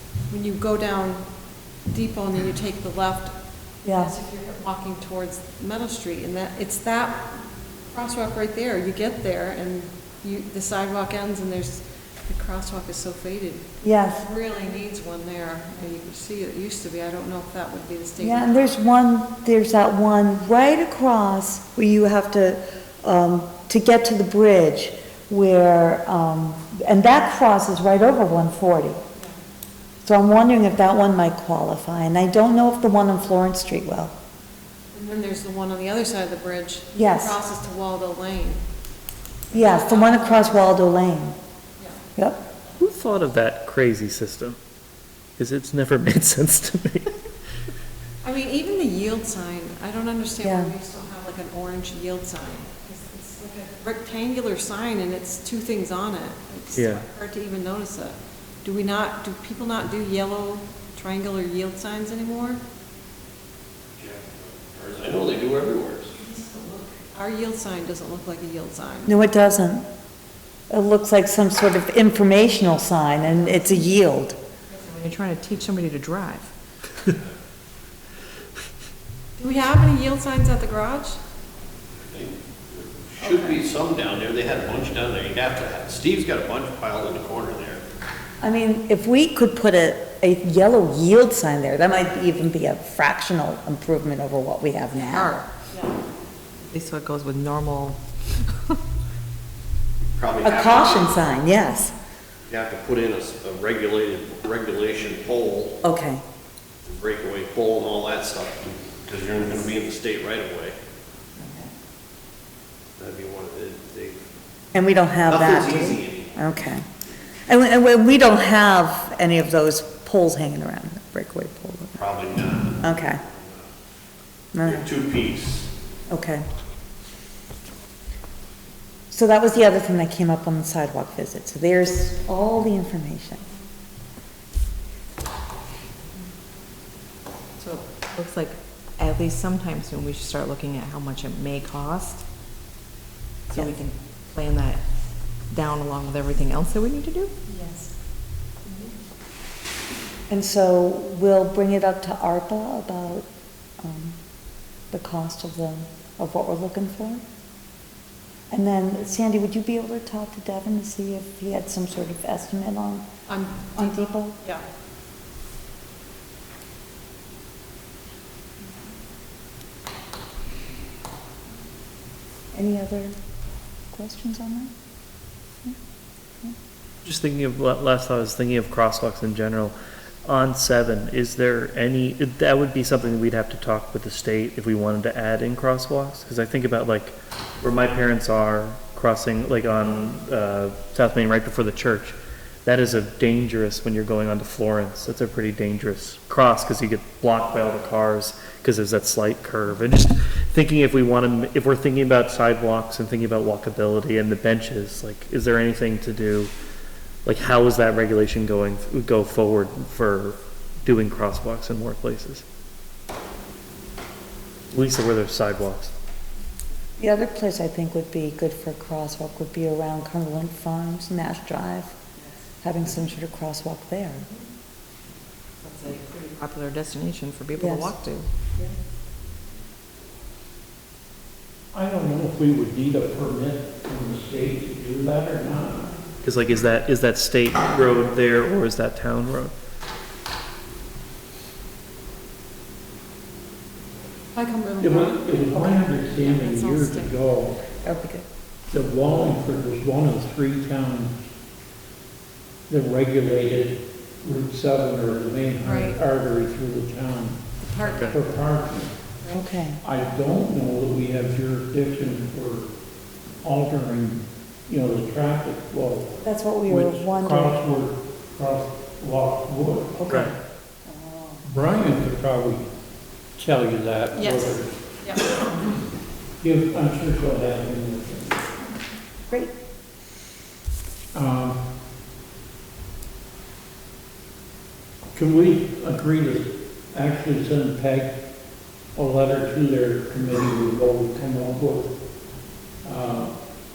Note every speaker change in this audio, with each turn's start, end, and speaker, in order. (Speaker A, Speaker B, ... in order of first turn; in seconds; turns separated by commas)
Speaker A: 0.3-1.2, Speaker A: 1.9-3.3, Speaker B: 3.8-4.1, Speaker A: 3.9-7.2, Speaker A: 7.9-13.6, Speaker B: 13.8-14.2, Speaker A: 14.2-18.7, Speaker B: 18.2-29.0, Speaker B: 30.0-34.1, Speaker A: 34.9-38.6, Speaker B: 36.9-37.4, Speaker A: 39.5-40.8, Speaker B: 39.5-41.4, Speaker B: 42.1-42.4, Speaker C: 42.8-44.6, Speaker C: 45.4-47.1, Speaker A: 48.2-62.6, Speaker B: 50.4-50.7, Speaker C: 56.7-57.0, Speaker D: 64.0-66.3, Speaker E: 66.3-66.8, Speaker A: 67.1-69.1, Speaker B: 69.0-69.9, Speaker B: 70.7-74.4, Speaker E: 74.7-76.5, Speaker A: 79.4-81.2, Speaker D: 82.1-87.8, Speaker A: 83.2-83.5, Speaker B: 88.4-95.4, Speaker E: 95.1-95.4, Speaker E: 96.7-98.0, Speaker D: 100.1-101.4, Speaker B: 100.4-101.9, Speaker D: 102.5-105.7, Speaker B: 105.8-106.2, Speaker D: 106.8-110.8, Speaker E: 111.4-111.7, Speaker D: 113.0-114.2, Speaker B: 114.7-116.8, Speaker D: 115.3-116.3, Speaker B: 117.5-122.0, Speaker D: 122.0-123.7, Speaker B: 122.8-123.2, Speaker B: 124.5-124.9, Speaker D: 124.7-125.7, Speaker B: 126.1-126.4, Speaker B: 129.1-133.4, Speaker E: 137.6-142.2, Speaker E: 143.5-144.8, Speaker E: 145.5-147.3, Speaker A: 147.5-147.9, Speaker B: 150.3-153.3, Speaker B: 153.8-154.2, Speaker B: 154.9-157.2, Speaker B: 158.5-163.1, Speaker A: 163.3-164.6, Speaker B: 163.8-164.3, Speaker B: 172.5-173.1, Speaker B: 173.9-174.7, Speaker C: 177.0-179.7, Speaker C: 180.2-206.5, Speaker C: 207.2-212.4, Speaker C: 214.7-215.9, Speaker B: 217.0-221.9, Speaker B: 222.6-224.2, Speaker E: 225.6-228.3, Speaker B: 227.6-227.9, Speaker F: 231.7-235.9, Speaker C: 236.2-239.5, Speaker A: 244.3-247.1, Speaker F: 244.8-247.6, Speaker B: 247.8-248.2, Speaker F: 248.7-251.2, Speaker F: 252.7-258.9, Speaker A: 255.6-256.0, Speaker A: 257.6-258.2, Speaker C: 257.9-258.1, Speaker A: 259.2-259.5, Speaker B: 259.3-259.8, Speaker F: 259.8-262.7, Speaker F: 263.4-270.0, Speaker B: 266.2-267.6, Speaker B: 270.0-271.4, Speaker C: 270.1-270.3, Speaker F: 271.4-272.6, Speaker F: 273.4-274.7, Speaker A: 274.1-275.3, Speaker F: 276.4-278.5, Speaker F: 281.1-281.6, Speaker F: 285.1-288.1, Speaker F: 288.9-291.9, Speaker F: 292.8-293.3